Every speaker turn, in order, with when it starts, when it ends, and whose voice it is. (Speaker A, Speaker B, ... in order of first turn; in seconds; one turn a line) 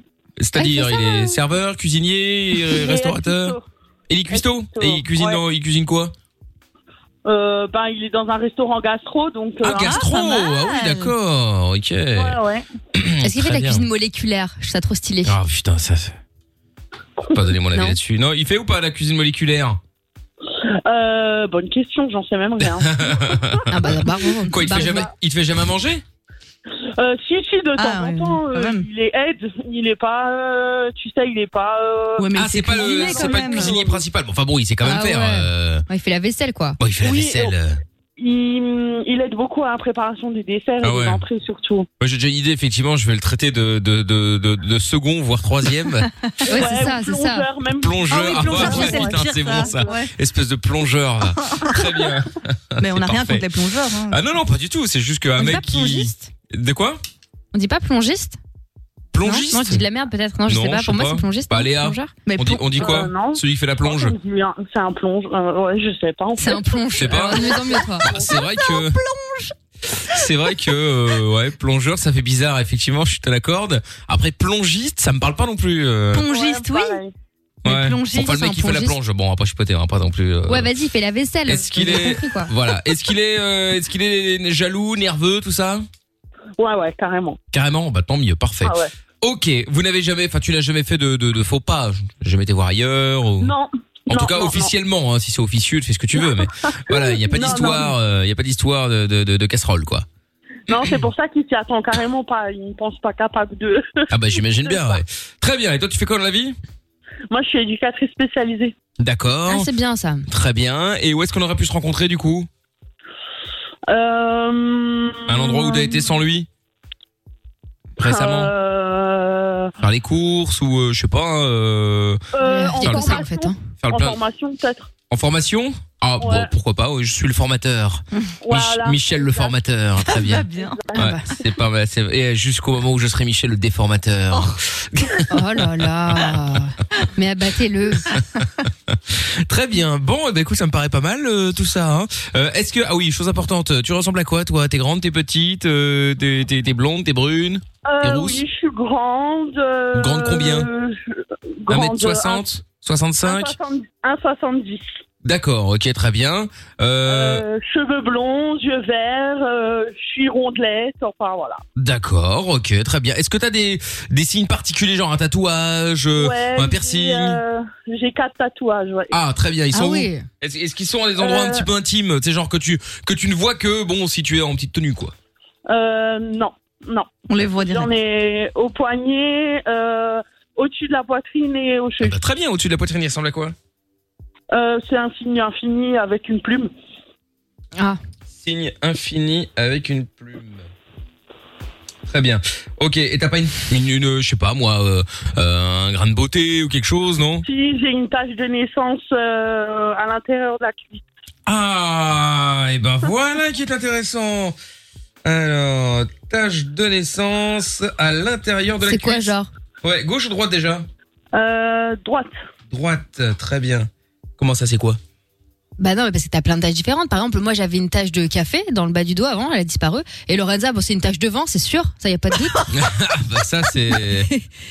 Speaker A: 0.4-3.5
Speaker B: 0.6-1.0
Speaker C: 2.7-3.6
Speaker A: 4.1-6.1
Speaker C: 4.3-5.4
Speaker C: 7.2-10.0
Speaker A: 9.6-12.4
Speaker D: 9.7-11.1
Speaker C: 12.1-12.6
Speaker A: 12.9-13.8
Speaker B: 13.2-15.4
Speaker A: 15.2-16.2
Speaker A: 17.3-19.8
Speaker C: 20.8-23.5
Speaker A: 22.6-26.0
Speaker B: 23.7-25.1
Speaker C: 27.0-34.0
Speaker D: 27.8-28.9
Speaker D: 32.2-33.8
Speaker A: 32.3-35.8
Speaker B: 34.8-36.8
Speaker A: 36.8-37.8
Speaker C: 37.0-37.5
Speaker C: 38.2-41.9
Speaker A: 40.8-41.2
Speaker A: 42.0-46.1
Speaker C: 46.5-50.0
Speaker B: 46.5-47.5
Speaker A: 47.7-53.5
Speaker D: 48.1-50.1
Speaker D: 51.4-51.8
Speaker D: 52.8-54.2
Speaker A: 54.1-57.0
Speaker B: 55.4-56.2
Speaker B: 57.5-58.4
Speaker A: 59.1-59.8
Speaker B: 59.2-62.1
Speaker A: 60.5-64.2
Speaker D: 62.2-63.1
Speaker C: 62.8-68.4
Speaker B: 66.4-68.1
Speaker A: 66.9-69.0
Speaker D: 68.4-69.5
Speaker A: 70.1-76.2
Speaker D: 76.1-77.0
Speaker C: 76.3-77.1
Speaker D: 77.6-78.9
Speaker A: 77.6-80.7
Speaker B: 78.2-78.8
Speaker B: 80.5-82.5
Speaker A: 81.5-85.8
Speaker C: 86.6-87.4
Speaker A: 87.5-93.5
Speaker C: 88.6-88.9
Speaker C: 93.4-94.7
Speaker A: 94.1-100.0
Speaker C: 96.2-97.9
Speaker C: 100.7-104.1
Speaker A: 104.1-106.6
Speaker C: 104.6-105.0
Speaker C: 107.3-108.7
Speaker A: 109.0-109.7
Speaker B: 109.5-110.2
Speaker A: 110.3-112.5
Speaker C: 113.9-116.1
Speaker A: 115.3-116.5
Speaker A: 118.0-118.5
Speaker C: 118.0-119.7
Speaker A: 119.8-122.2
Speaker C: 122.3-124.9
Speaker B: 122.4-123.6
Speaker A: 122.8-123.2
Speaker A: 123.8-124.2
Speaker A: 125.1-136.3
Speaker C: 126.2-126.5
Speaker C: 128.4-129.5
Speaker D: 130.0-130.8
Speaker C: 130.5-131.2
Speaker B: 130.9-131.2
Speaker B: 135.3-138.2
Speaker A: 138.9-148.4
Speaker C: 147.8-152.4
Speaker A: 149.9-150.7
Speaker A: 151.7-153.6
Speaker C: 153.2-154.9
Speaker A: 155.2-157.4
Speaker C: 157.1-161.6
Speaker A: 161.8-167.4
Speaker C: 166.2-169.1
Speaker A: 169.1-175.1
Speaker B: 169.7-170.2
Speaker C: 171.2-171.7
Speaker C: 175.7-182.2
Speaker D: 177.3-177.9
Speaker A: 182.0-183.5
Speaker C: 184.5-186.7
Speaker A: 188.3-190.7
Speaker A: 192.1-197.4
Speaker C: 197.4-201.0
Speaker A: 201.5-204.6
Speaker A: 205.2-210.8
Speaker B: 208.8-209.5
Speaker C: 211.3-212.3
Speaker A: 212.7-215.0
Speaker B: 215.8-222.6
Speaker A: 222.7-224.3